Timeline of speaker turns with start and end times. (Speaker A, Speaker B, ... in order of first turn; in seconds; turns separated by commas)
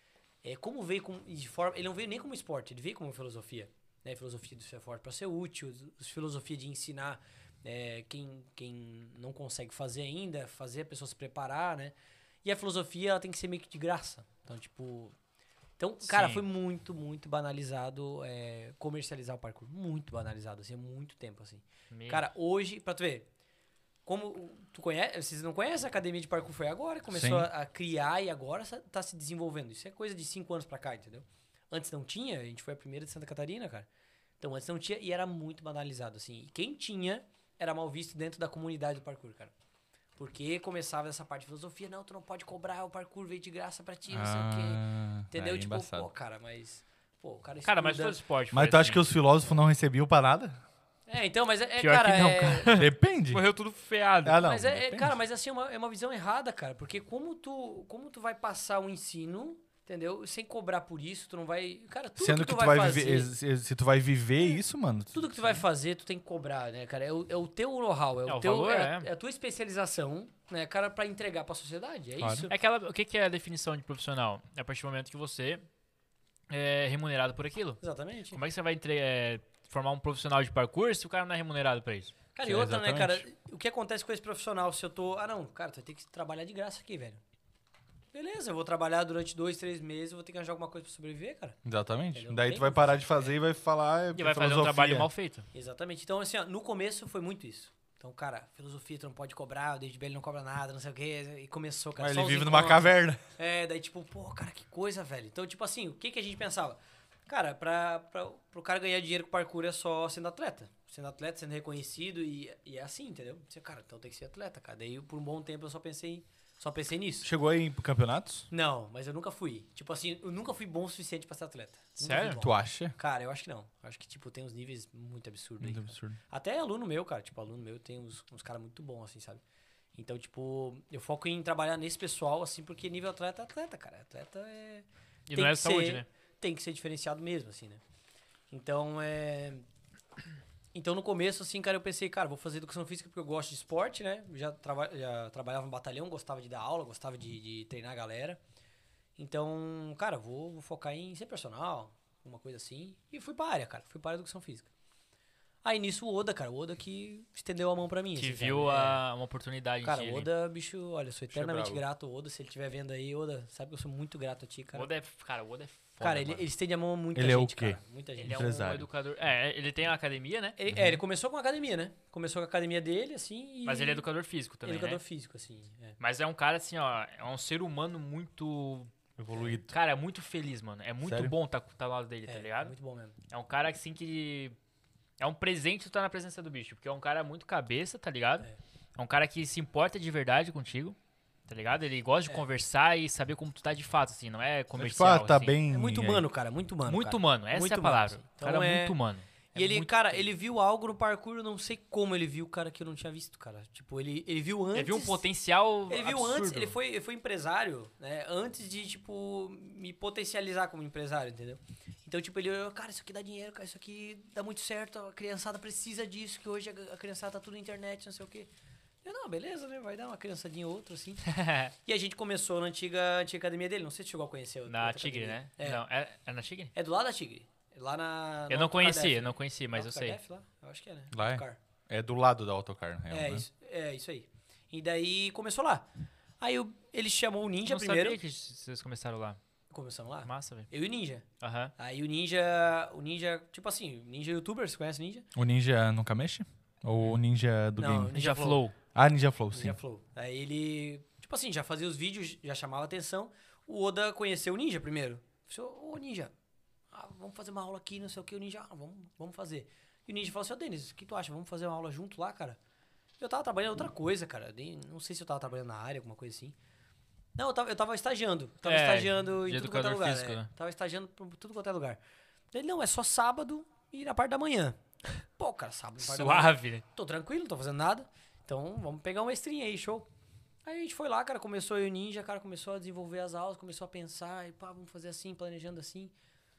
Speaker A: 0.4-15.1, Speaker A: 15.8-23.3, Speaker B: 16.1-16.4, Speaker B: 21.9-22.2, Speaker A: 24.1-33.9, Speaker C: 27.1-27.5, Speaker A: 34.4-39.5, Speaker A: 40.2-48.2, Speaker C: 44.1-46.1, Speaker B: 47.6-49.0, Speaker C: 48.5-50.6, Speaker A: 51.1-52.8, Speaker B: 51.8-54.4, Speaker C: 52.7-53.4, Speaker C: 54.2-55.1, Speaker A: 54.4-63.3, Speaker C: 62.2-65.6, Speaker A: 65.1-72.5, Speaker B: 68.3-69.1, Speaker C: 72.2-72.5, Speaker B: 72.5-75.7, Speaker B: 76.5-77.8, Speaker A: 77.8-78.4, Speaker B: 78.3-82.1, Speaker A: 82.3-87.2, Speaker C: 82.4-83.2, Speaker A: 88.1-91.6, Speaker C: 91.6-95.1, Speaker A: 92.1-93.3, Speaker B: 94.1-95.5, Speaker A: 95.5-117.3, Speaker C: 102.0-103.2, Speaker C: 117.2-118.5, Speaker A: 118.5-129.4, Speaker B: 122.0-122.4, Speaker C: 122.4-122.9, Speaker C: 125.6-126.2, Speaker A: 129.9-137.8, Speaker B: 135.3-136.1, Speaker A: 138.5-139.6, Speaker A: 140.7-148.4, Speaker A: 149.2-154.7, Speaker A: 155.6-159.0, Speaker B: 158.2-160.3, Speaker A: 159.8-164.9, Speaker C: 161.3-161.8, Speaker B: 164.7-166.4, Speaker A: 166.0-168.6, Speaker C: 167.1-168.9, Speaker B: 168.2-170.6, Speaker A: 170.6-174.0, Speaker C: 170.7-171.0, Speaker B: 173.6-175.0, Speaker A: 174.6-176.0, Speaker B: 176.0-178.9, Speaker C: 179.2-179.7, Speaker B: 179.7-182.7, Speaker C: 181.0-181.3, Speaker A: 182.2-183.1, Speaker B: 183.3-184.6, Speaker B: 185.2-190.9, Speaker B: 191.5-195.6, Speaker C: 194.8-196.2, Speaker A: 195.7-199.0, Speaker B: 196.8-200.3, Speaker A: 199.5-205.2, Speaker B: 204.7-206.7, Speaker A: 205.9-218.5, Speaker A: 219.0-221.3, Speaker B: 221.2-221.7, Speaker A: 221.8-225.8, Speaker B: 224.7-226.7, Speaker A: 226.7-231.6, Speaker B: 228.5-230.2, Speaker C: 231.1-233.4, Speaker A: 233.1-235.9, Speaker A: 236.4-238.2, Speaker B: 237.6-239.4, Speaker A: 239.7-241.2, Speaker B: 240.2-240.7, Speaker B: 241.4-241.7, Speaker A: 241.8-245.2, Speaker C: 245.3-248.2, Speaker A: 247.8-248.6, Speaker B: 248.1-248.7, Speaker C: 248.9-249.8, Speaker A: 249.5-256.3, Speaker A: 256.9-262.6, Speaker A: 263.2-266.6, Speaker A: 267.4-272.0, Speaker B: 268.6-270.5, Speaker A: 272.5-280.1, Speaker B: 276.0-276.8, Speaker A: 280.6-286.1